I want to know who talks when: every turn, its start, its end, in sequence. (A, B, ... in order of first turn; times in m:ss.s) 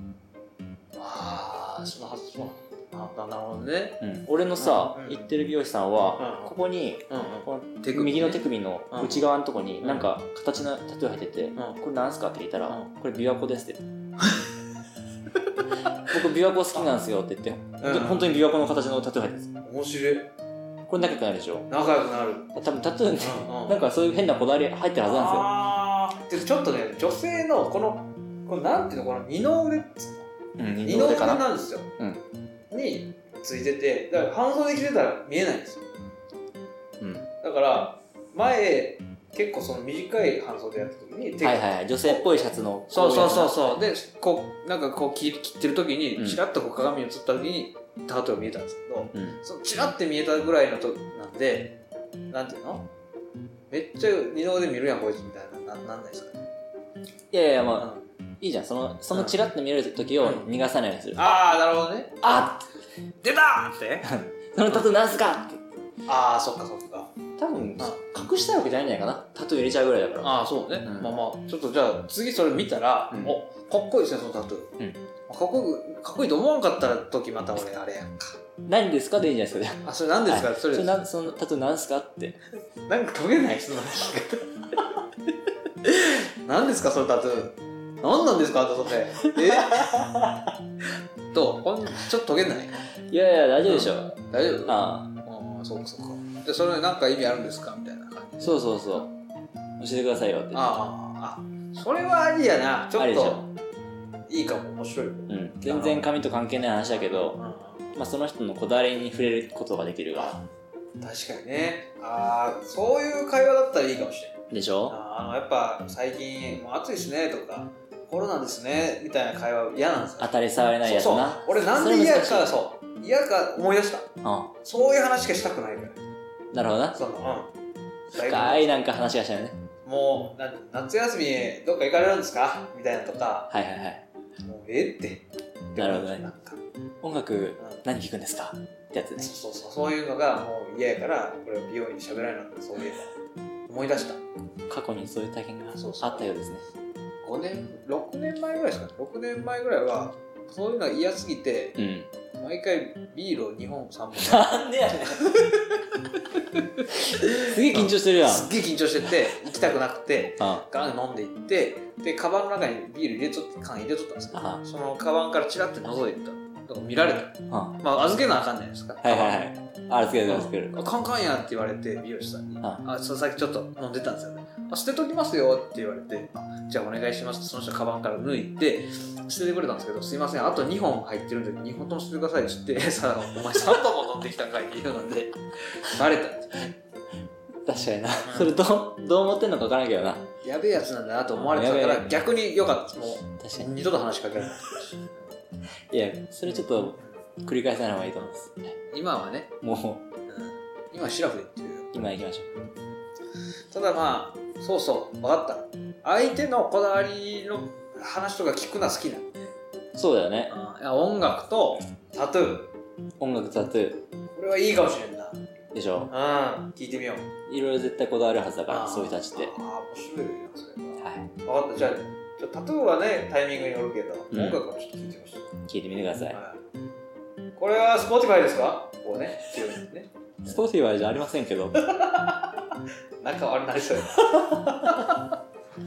0:01.0-0:05.2 A
0:04.0-0:13.8 B
0:06.2-0:06.6 A
0:07.1-0:09.3 A
0:09.8-0:10.1 A
0:14.2-0:14.5 A
0:16.1-0:19.5 B
0:17.8-0:18.4 A
0:19.6-0:20.3 A
0:20.9-0:21.7 B
0:21.7-0:22.6 A
0:22.5-0:25.5 B
0:23.2-0:23.9 A
0:25.0-0:30.3 A
0:30.6-0:31.4 B
0:30.8-0:31.9 A
0:32.7-0:35.9 A
0:37.0-0:37.3 B
0:37.4-0:42.3 A
0:41.4-0:43.6 B
0:42.9-0:51.8 A
0:49.1-0:49.4 B
0:52.3-0:52.9 A
0:53.7-0:56.4 A
0:57.3-0:57.9 B
0:57.8-0:58.1 A
0:58.4-1:01.4 B
0:59.1-0:59.4 A
1:00.2-1:00.5 A
1:01.2-1:02.4 A
1:02.2-1:02.6 B
1:03.2-1:04.1 A
1:04.0-1:05.6 B
1:06.1-1:07.1 A
1:07.4-1:11.1 B
1:10.2-1:18.4 A
1:18.7-1:22.4 B
1:19.8-1:21.4 A
1:22.9-1:25.0 A
1:25.8-1:30.2 A
1:29.4-1:30.5 B
1:31.3-1:32.8 A
1:33.1-1:35.1 B
1:33.7-1:38.6 A
1:38.4-1:39.1 B
1:39.8-1:40.8 B
1:40.5-1:43.5 A
1:42.9-1:43.5 B
1:44.3-1:46.1 A
1:45.3-1:47.4 B
1:46.9-1:48.0 A
1:48.0-1:50.4 B
1:51.0-2:04.1 A
1:54.5-1:55.0 B
2:00.2-2:02.5 B
2:04.2-2:04.5 B
2:04.6-2:06.0 A
2:06.5-2:07.0 B
2:06.9-2:07.5 A
2:08.1-2:08.8 A
2:08.1-2:09.6 B
2:09.8-2:13.5 A
2:13.5-2:14.0 B
2:14.4-2:16.6 A
2:15.8-2:16.3 B
2:17.0-2:19.3 B
2:19.2-2:23.1 A
2:23.7-2:24.2 A
2:24.7-2:26.6 B
2:25.7-2:26.3 A
2:27.2-2:31.8 A
2:31.8-2:32.1 B
2:32.4-2:34.6 A
2:34.2-2:35.3 B
2:35.2-2:35.6 A
2:37.1-2:49.5 A
2:37.4-2:38.5 B
2:40.4-2:40.6 B
2:44.3-2:44.6 B
2:47.5-2:47.8 B
2:49.0-2:50.8 B
2:50.3-3:06.8 A
3:07.7-3:10.3 B
3:08.3-3:08.6 A
3:10.4-3:15.2 A
3:11.3-3:12.2 B
3:13.4-3:13.7 B
3:15.9-3:18.6 B
3:16.5-3:17.0 A
3:18.9-3:19.6 A
3:19.6-3:20.0 B
3:20.3-3:22.1 A
3:21.9-3:22.5 B
3:23.7-3:29.5 A
3:30.0-3:30.5 B
3:30.5-3:32.7 A
3:33.2-3:34.0 B
3:34.3-3:35.4 A
3:35.7-3:36.1 B
3:36.1-3:37.3 A
3:37.5-3:39.5 B
3:38.7-3:45.5 A
3:41.0-3:41.3 B
3:44.3-3:44.6 B
3:45.7-3:46.4 B
3:46.3-3:46.6 A
3:47.6-3:50.5 A
3:50.4-3:51.8 B
3:51.8-3:52.6 A
3:53.2-3:55.3 A